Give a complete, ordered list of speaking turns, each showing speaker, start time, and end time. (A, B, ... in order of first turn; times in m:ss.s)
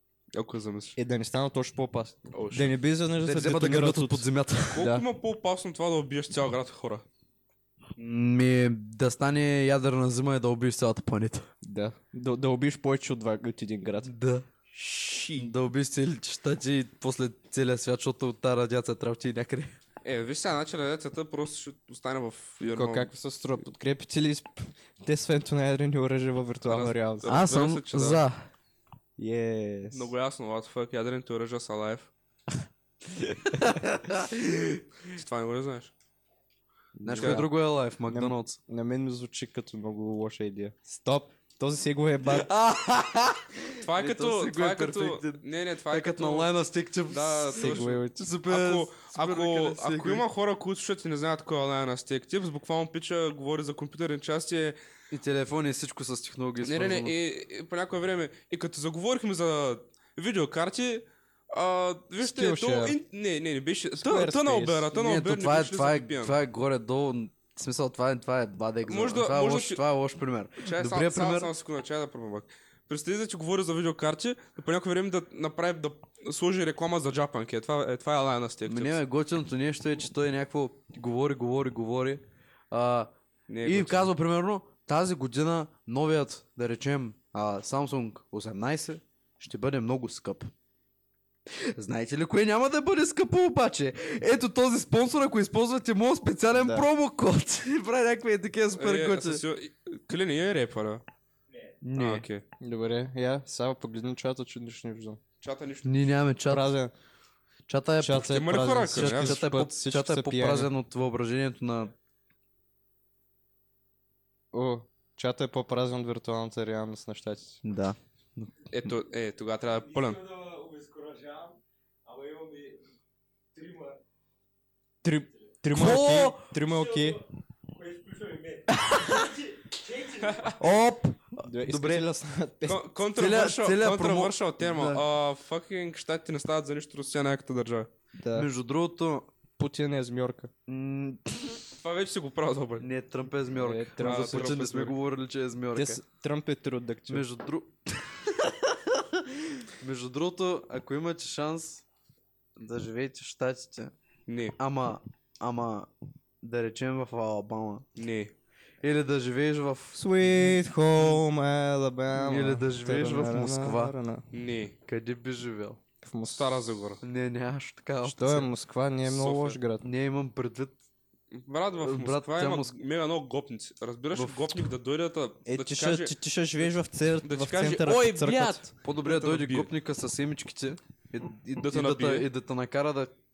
0:00.3-0:01.0 A
0:01.0-0:05.0 B
0:02.3-0:02.7 A
0:03.2-0:04.9 C
0:04.7-0:07.0 A
0:08.0-0:11.5 C
0:11.6-0:14.1 B
0:14.0-0:14.5 C
0:14.7-0:15.5 B
0:15.4-0:19.8 C
0:20.0-0:23.1 A
0:22.6-0:27.3 B
0:26.7-0:28.2 A
0:27.2-0:28.5 C
0:29.2-0:30.1 B
0:29.9-0:32.1 A
0:33.5-0:34.8 C
0:35.0-0:35.9 A
0:37.0-0:37.5 B
0:37.0-0:38.6 C
0:38.1-0:42.5 B
0:42.2-0:50.2 C
0:43.8-0:46.5 A
0:47.1-0:54.8 A
0:47.6-0:48.3 B
0:55.1-0:57.1 C
0:56.6-1:06.4 A
1:02.2-1:03.0 B
1:04.0-1:04.9 B
1:04.9-1:11.5 C
1:08.9-1:09.8 A
1:10.6-1:19.0 A
1:18.6-1:23.1 C
1:23.5-1:24.1 A
1:23.6-1:30.5 C
1:31.5-1:39.4 C
1:36.5-1:36.8 B
1:38.7-1:41.0 A
1:41.8-1:42.2 C
1:41.9-1:42.4 A
1:42.6-1:45.2 B
1:45.4-1:46.0 A
1:45.8-1:46.6 C
1:46.5-1:46.9 B
1:47.7-1:51.9 C
1:48.0-1:50.7 B
1:48.2-1:49.4 A
1:54.5-1:57.6 B
1:57.6-1:58.9 C
1:58.7-2:00.2 A
1:59.7-2:02.8 D
2:03.5-2:04.0 D
2:05.0-2:07.2 B
2:05.7-2:06.5 C
2:06.6-2:10.6 D
2:08.7-2:09.2 C
2:10.2-2:10.6 A
2:10.6-2:12.1 C
2:11.4-2:12.8 B
2:12.6-2:17.9 A
2:13.2-2:15.0 C
2:18.2-2:18.5 B
2:18.3-2:19.3 C
2:19.6-2:20.5 B
2:20.7-2:21.6 C
2:21.8-2:22.9 A
2:22.8-2:26.0 C
2:23.6-2:24.5 B
2:24.0-2:25.0 A
2:25.7-2:27.2 B
2:27.1-2:31.8 C
2:32.6-2:33.9 C
2:34.3-2:34.6 A
2:34.6-2:35.9 C
2:36.4-2:37.8 C
2:38.0-2:38.3 A
2:38.8-2:41.2 C
2:39.9-2:44.2 B
2:42.1-2:43.9 C
2:44.3-2:44.8 A
2:44.9-2:45.8 C
2:46.0-2:46.5 B
2:46.3-2:47.0 A
2:47.0-2:48.5 C
2:48.0-2:49.8 B
2:49.0-2:49.6 A
2:49.8-2:50.8 C
2:51.3-2:56.1 A
2:51.8-2:52.7 C
2:54.1-2:54.6 C
2:55.4-2:58.6 B
2:57.2-2:59.7 A
2:58.0-3:03.1 C
3:01.6-3:02.3 A